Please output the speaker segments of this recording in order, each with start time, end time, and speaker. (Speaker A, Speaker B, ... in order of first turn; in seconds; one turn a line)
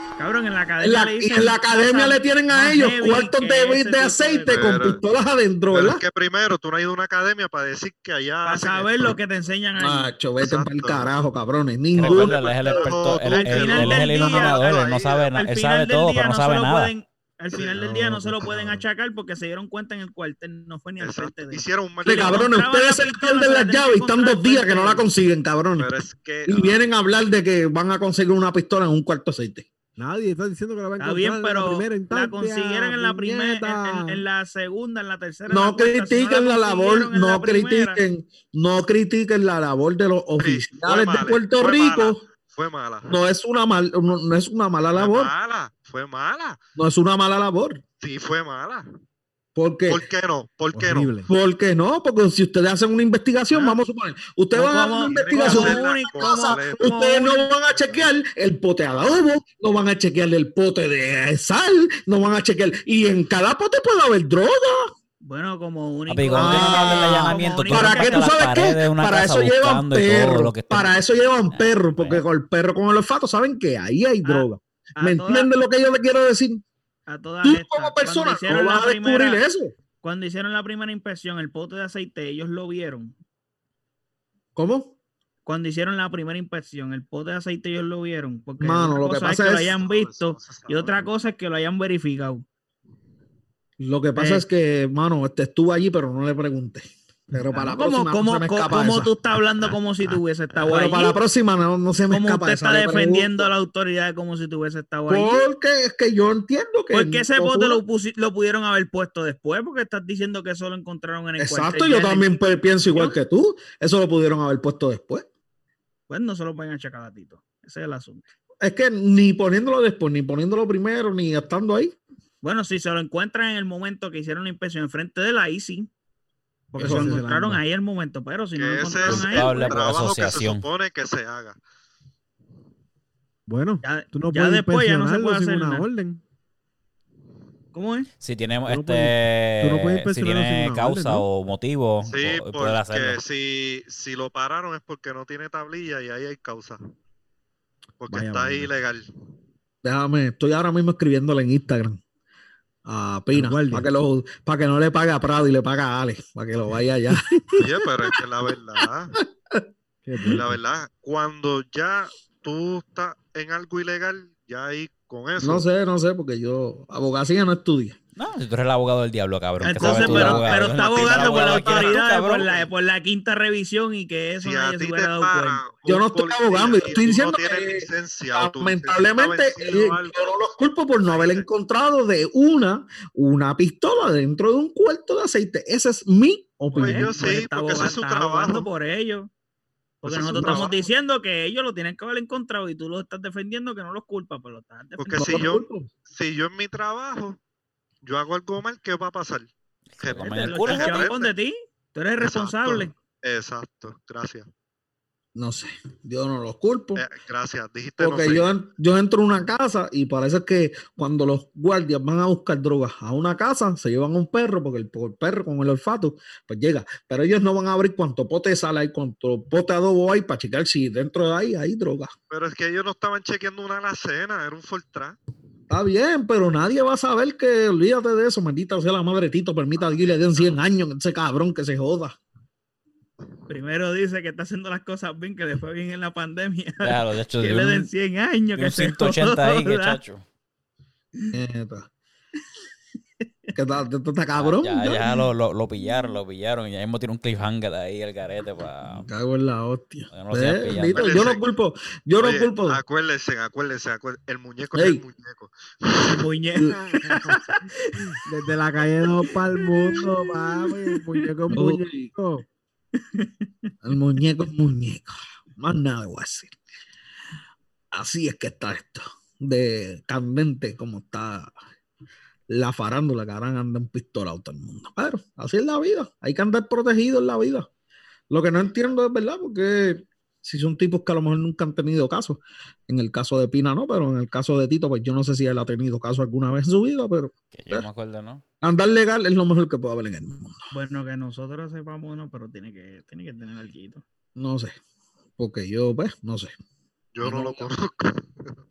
Speaker A: 0.2-4.7
Speaker B: 0.8-6.0
Speaker C: 4.5-5.0
Speaker C: 5.7-9.2
Speaker A: 8.4-10.1
Speaker B: 9.8-12.4
Speaker C: 10.4-11.1
Speaker D: 11.9-16.9
Speaker C: 12.0-15.3
Speaker A: 13.3-14.8
Speaker A: 15.3-25.1
Speaker E: 17.7-18.8
Speaker C: 21.0-22.5
Speaker B: 22.0-25.9
Speaker C: 25.8-26.9
Speaker B: 26.5-29.6
Speaker E: 30.0-34.2
Speaker A: 31.0-38.0
Speaker B: 35.5-42.2
Speaker C: 40.4-43.2
Speaker B: 43.1-45.3
Speaker C: 44.9-46.6
Speaker B: 46.8-47.8
Speaker C: 48.0-48.8
Speaker B: 49.5-50.0
Speaker C: 49.9-51.1
Speaker E: 50.7-51.3
Speaker B: 51.3-64.9
Speaker A: 53.5-53.8
Speaker A: 54.5-57.5
Speaker C: 55.0-56.9
Speaker A: 65.2-68.5
Speaker D: 66.1-71.0
Speaker B: 66.3-76.6
Speaker D: 71.5-72.2
Speaker A: 75.0-75.5
Speaker A: 77.1-79.4
Speaker B: 77.4-79.7
Speaker A: 80.0-83.1
Speaker B: 84.5-84.9
Speaker A: 85.5-92.4
Speaker B: 88.6-89.8
Speaker C: 89.8-91.0
Speaker B: 93.8-99.1
Speaker A: 94.2-94.4
Speaker A: 97.5-101.2
Speaker B: 100.6-103.5
Speaker A: 102.1-105.4
Speaker B: 105.1-107.8
Speaker A: 106.9-112.3
Speaker B: 111.4-115.3
Speaker A: 112.9-113.2
Speaker A: 116.1-118.2
Speaker B: 118.6-122.0
Speaker A: 122.4-125.9
Speaker A: 126.7-129.8
Speaker E: 126.7-127.6
Speaker B: 126.8-127.2
Speaker C: 128.6-131.6
Speaker D: 129.0-130.6
Speaker E: 133.5-136.2
Speaker A: 133.8-135.8
Speaker A: 137.7-138.1
Speaker D: 138.2-143.2
Speaker E: 138.7-141.2
Speaker C: 142.0-146.8
Speaker C: 148.0-149.1
Speaker E: 148.1-148.8
Speaker B: 149.8-152.0
Speaker B: 152.8-158.2
Speaker E: 153.3-153.9
Speaker E: 157.1-157.6
Speaker C: 157.6-159.2
Speaker E: 160.0-160.6
Speaker C: 160.3-165.7
Speaker B: 165.4-168.0
Speaker D: 168.2-172.5
Speaker A: 169.6-175.7
Speaker E: 169.8-170.4
Speaker C: 170.7-172.0
Speaker C: 174.4-180.5
Speaker B: 175.8-187.1
Speaker C: 181.0-181.5
Speaker A: 186.7-189.3
Speaker C: 186.7-188.7
Speaker A: 190.0-195.5
Speaker C: 190.0-190.8
Speaker B: 190.1-190.8
Speaker C: 195.0-197.4
Speaker B: 195.2-195.9
Speaker C: 198.0-199.5
Speaker D: 199.9-201.1
Speaker C: 200.0-201.3
Speaker A: 200.2-202.9
Speaker C: 202.2-204.5
Speaker B: 205.3-207.0
Speaker C: 206.9-208.5
Speaker B: 208.0-222.1
Speaker C: 222.3-225.2
Speaker B: 225.7-232.2
Speaker C: 229.8-230.6
Speaker A: 233.5-240.0
Speaker D: 236.8-237.9
Speaker D: 238.6-240.2
Speaker B: 241.3-241.9
Speaker B: 243.5-245.0
Speaker D: 244.4-249.1
Speaker B: 248.9-252.8
Speaker D: 250.1-251.1
Speaker C: 250.9-251.4
Speaker C: 252.2-256.2
Speaker B: 254.8-255.0
Speaker A: 256.0-258.1
Speaker E: 256.7-257.4
Speaker E: 257.9-262.4
Speaker A: 259.2-261.3
Speaker B: 261.5-262.1
Speaker A: 262.9-263.7
Speaker B: 263.8-266.5
Speaker B: 267.9-271.5
Speaker B: 272.5-277.7
Speaker B: 278.3-287.9
Speaker D: 287.5-288.4
Speaker B: 288.6-290.7
Speaker A: 290.7-294.0
Speaker B: 294.4-294.8
Speaker B: 295.4-296.5
Speaker C: 297.1-298.5
Speaker B: 297.2-297.6